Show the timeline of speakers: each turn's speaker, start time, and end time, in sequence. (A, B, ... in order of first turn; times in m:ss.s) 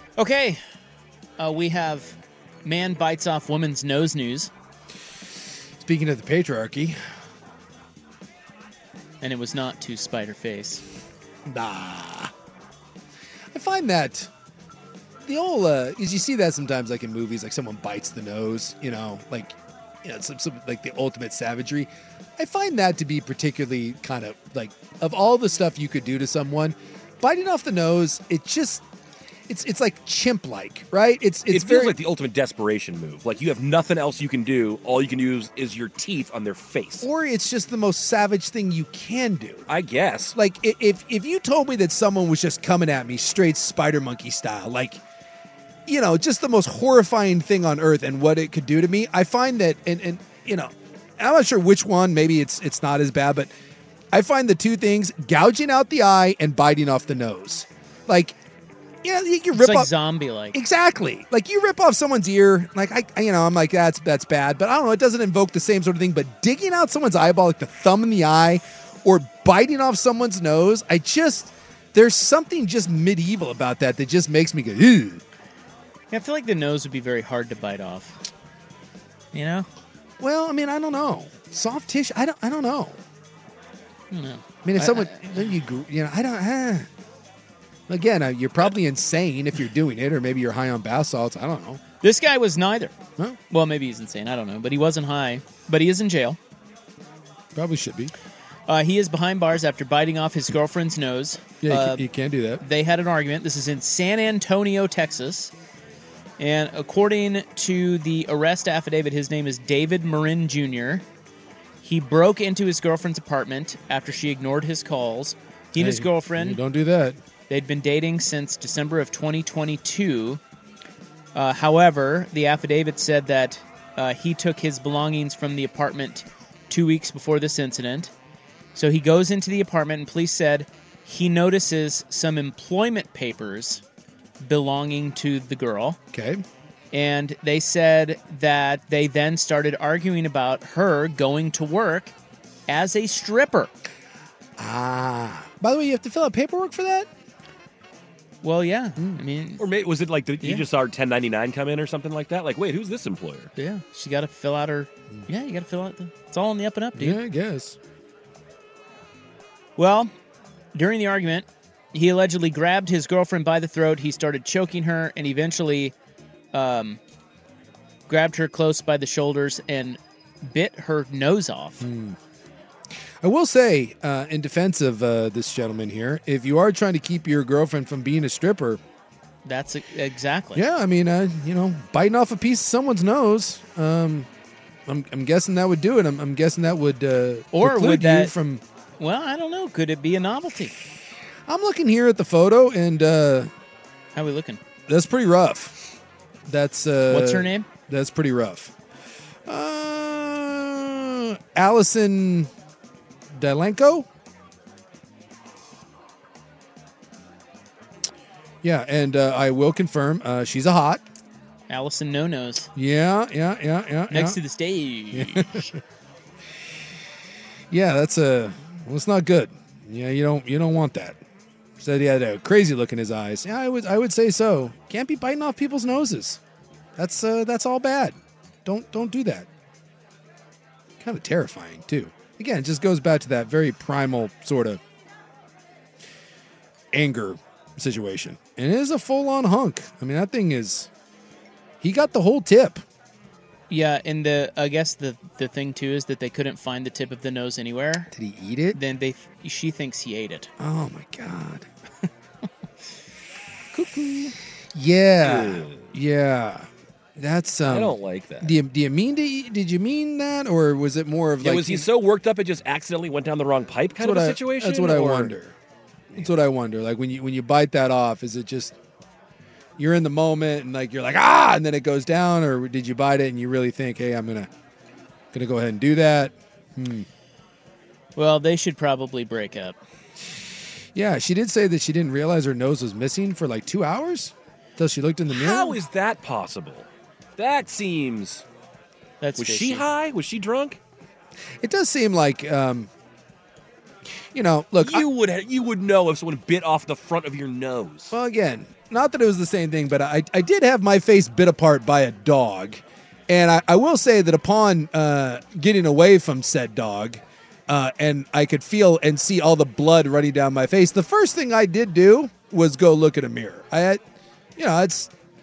0:00.2-0:00.6 A
0:01.4-0:04.5 A
0:05.8-0:06.9 B
0:09.2-0:10.8 A
0:11.5-0:12.3 B
0:13.5-0:14.3 B
0:15.2-0:28.8 B
0:29.5-0:31.9 B
0:31.5-0:37.1 C
0:37.0-0:39.7 B
0:39.7-0:40.3 C
0:40.3-0:45.0 B
0:45.9-0:53.5 B
0:54.1-0:58.4 B
0:59.0-0:59.9 B
0:59.5-1:00.6 A
1:00.5-1:15.2 B
1:16.1-1:18.1 A
1:19.3-1:19.7 A
1:20.2-1:23.0 B
1:24.1-1:25.5 A
1:24.6-1:26.9 B
1:27.9-1:31.8 B
1:32.0-1:32.9 A
1:33.5-1:36.4 A
1:37.5-1:38.1 B
1:38.7-1:42.1 A
1:41.6-1:42.6 B
1:42.6-1:45.5 A
1:46.4-1:51.0 A
1:51.8-1:56.6 A
1:55.7-1:57.2 B
1:57.5-2:00.4 A
2:01.3-2:08.1 A
2:08.7-2:13.8 A
2:14.4-2:16.0 A
2:16.1-2:16.4 B
2:16.9-2:22.1 A
2:22.7-2:23.7 A
2:24.6-2:27.1 B
2:28.4-2:29.6 A
2:29.6-2:33.5 C
2:30.4-2:30.6 A
2:33.6-2:37.2 A
2:36.9-2:37.8 B
2:39.8-2:40.1 A
2:40.7-2:45.9 A
2:46.5-2:47.0 A
2:48.1-2:51.8 A
2:51.8-2:52.2 B
2:53.2-2:58.8 B
2:59.4-3:00.6 A
3:00.5-3:04.3 B
3:04.9-3:08.6 B
3:07.5-3:08.3 A
3:09.0-3:10.7 A
3:11.5-3:13.5 B
3:14.1-3:14.6 A
3:14.9-3:15.8 B
3:16.5-3:18.7 B
3:17.1-3:17.7 A
3:19.5-3:22.5 B
3:23.4-3:24.0 B
3:28.6-3:31.0 B
3:31.7-3:32.7 A
3:32.8-3:34.4 B
3:34.1-3:35.7 A
3:35.1-3:35.6 B
3:37.7-3:41.2 B
3:41.8-3:46.4 B
3:47.0-3:49.5 B
3:51.0-3:54.8 B
3:56.9-4:00.9 B
4:01.8-4:02.8 B
4:03.7-4:08.1 A
4:08.1-4:08.8 B
4:08.7-4:10.5 A
4:10.6-4:11.7 B
4:13.7-4:14.3 A
4:14.7-4:16.7 B
4:15.2-4:15.9 C
4:17.2-4:21.9 B
4:17.7-4:18.6 C
4:21.4-4:25.3 C
4:24.0-4:25.5 B
4:26.1-4:28.7 B
4:29.8-4:34.5 B
4:35.3-4:37.0 B
4:38.1-4:39.8 A
4:40.9-4:45.8 B
4:45.3-4:46.9 C
4:47.4-4:48.4 C
4:49.2-4:49.8 A
4:49.4-4:50.8 C
4:51.6-4:52.9 B
4:54.3-4:55.0 B
4:54.8-4:58.1 C
4:58.1-5:14.0 B
5:14.6-5:15.1 B